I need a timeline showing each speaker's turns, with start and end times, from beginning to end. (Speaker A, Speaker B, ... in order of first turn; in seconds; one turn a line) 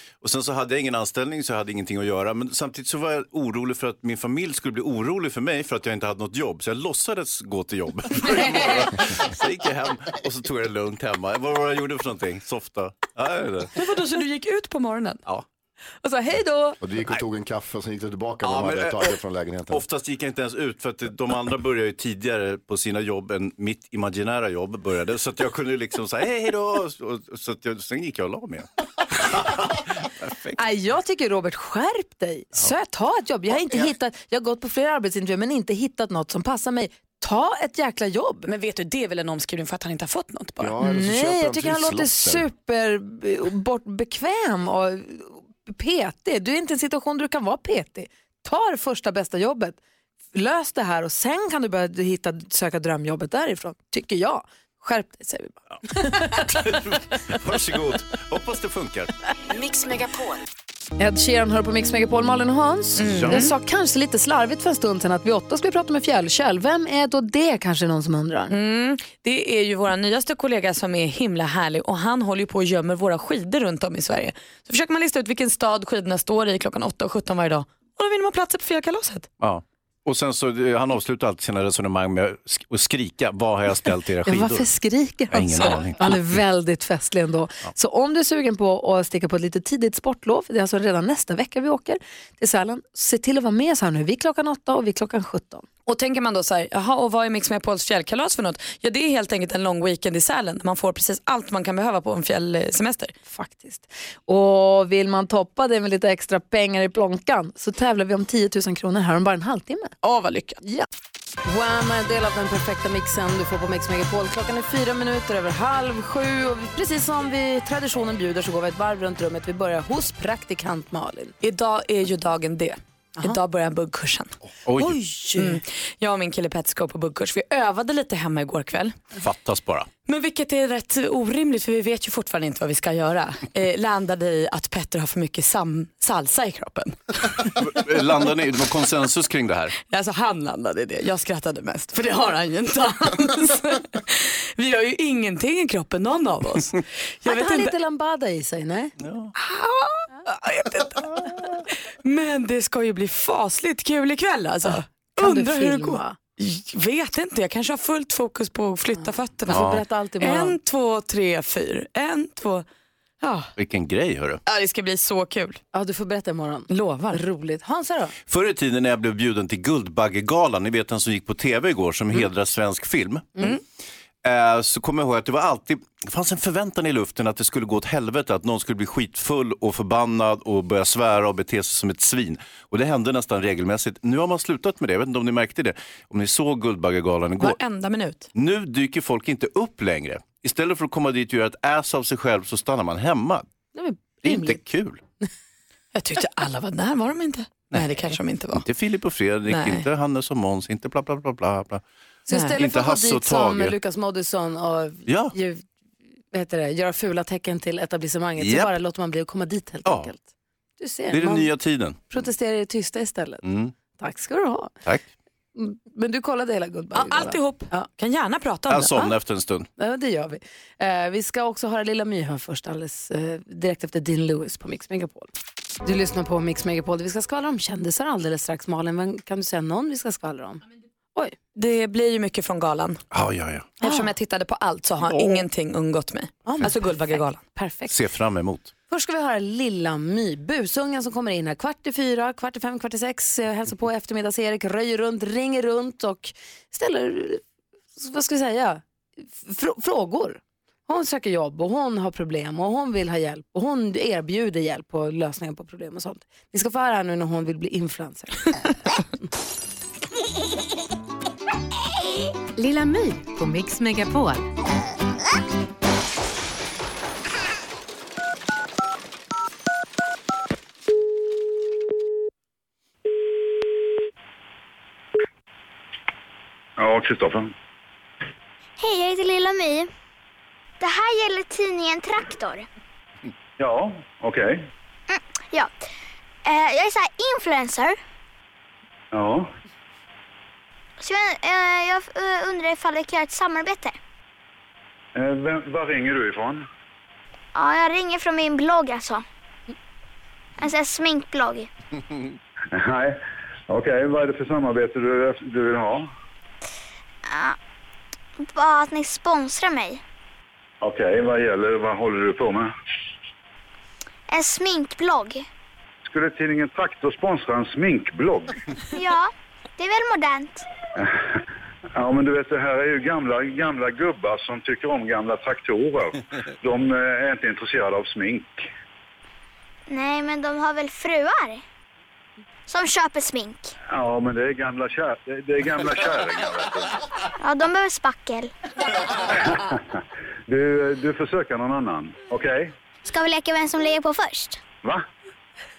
Speaker A: 0.2-13.7
Speaker B: 13.7-15.2
Speaker C: 16.0-16.8
Speaker D: 16.8-19.8
Speaker A: 18.4-19.1
Speaker A: 19.7-30.6
Speaker C: 30.6-38.5
Speaker D: 33.6-33.9
Speaker B: 38.5-40.7
Speaker D: 40.6-42.5
Speaker C: 40.8-49.8
Speaker C: 50.3-56.4
Speaker A: 56.1-59.1
Speaker E: 59.5-60.4
Speaker C: 61.0-68.5
Speaker B: 63.0-63.5
Speaker A: 63.0-63.4
Speaker B: 68.5-79.3
Speaker A: 79.4-84.7
Speaker C: 84.3-95.7
Speaker A: 85.3-86.4
Speaker B: 95.9-103.1
Speaker C: 103.3-109.9
Speaker B: 110.0-110.6
Speaker C: 111.4-121.3
Speaker B: 121.4-124.3
Speaker A: 124.7-125.0
Speaker C: 124.8-125.6
Speaker B: 125.3-129.0
Speaker A: 129.2-129.9
Speaker B: 130.1-137.5
Speaker A: 137.4-139.7
Speaker B: 139.9-147.7
Speaker C: 147.3-148.9
Speaker A: 149.0-149.3
Speaker B: 149.4-159.7
Speaker C: 155.2-156.2
Speaker C: 159.5-160.6
Speaker A: 159.5-159.8
Speaker B: 160.2-162.7
Speaker B: 163.2-163.5
Speaker A: 163.6-164.4
Speaker B: 164.5-165.6
Speaker C: 165.7-168.1
Speaker B: 166.7-167.2
Speaker A: 168.3-173.5
Speaker A: 174.2-187.6
Speaker B: 187.4-188.3
Speaker A: 188.3-193.5
Speaker C: 193.8-194.6
Speaker A: 194.2-195.0
Speaker B: 195.9-198.7
Speaker A: 198.5-201.8
Speaker B: 199.5-199.9
Speaker C: 202.3-205.7
Speaker B: 202.3-202.6
Speaker A: 202.6-203.8
Speaker A: 205.1-205.3
Speaker C: 206.3-210.2
Speaker A: 208.4-208.7
Speaker A: 209.8-210.1
Speaker C: 210.8-211.5
Speaker A: 211.1-212.2
Speaker C: 212.1-213.4
Speaker A: 213.4-213.7
Speaker C: 214.0-214.7
Speaker C: 215.6-217.9
Speaker B: 216.9-219.1
Speaker A: 218.7-219.7
Speaker C: 219.8-225.3
Speaker C: 225.8-230.6
Speaker B: 231.6-233.0
Speaker A: 233.1-233.7
Speaker C: 233.8-234.1
Speaker B: 233.8-237.4
Speaker A: 235.0-235.4
Speaker C: 236.5-236.9
Speaker C: 237.4-237.9
Speaker A: 237.9-238.7
Speaker C: 238.9-247.4
Speaker C: 248.0-248.8
Speaker C: 249.4-259.3
Speaker E: 262.6-264.5
Speaker F: 276.8-277.5
Speaker G: 278.8-279.9
Speaker G: 280.8-282.7
Speaker F: 283.6-284.7
Speaker G: 285.1-285.7
Speaker G: 286.4-288.0
Speaker F: 289.1-289.5
Speaker G: 291.0-294.0
Speaker F: 295.1-296.7
Speaker G: 297.6-299.2
Speaker G: 300.6-301.7
Speaker F: 302.7-306.1
Speaker G: 307.3-307.6
Speaker G: 308.4-310.0
Speaker F: 310.8-312.7
Speaker G: 314.3-315.4
Speaker F: 316.1-318.5
Speaker G: 318.9-320.6
Speaker F: 321.0-321.4
Speaker F: 321.9-328.7
Speaker G: 329.9-331.6
Speaker G: 332.7-333.7
Speaker F: 333.9-336.9
Speaker G: 337.4-338.5
Speaker F: 339.3-339.8
Speaker F: 340.5-342.8
Speaker G: 343.1-344.6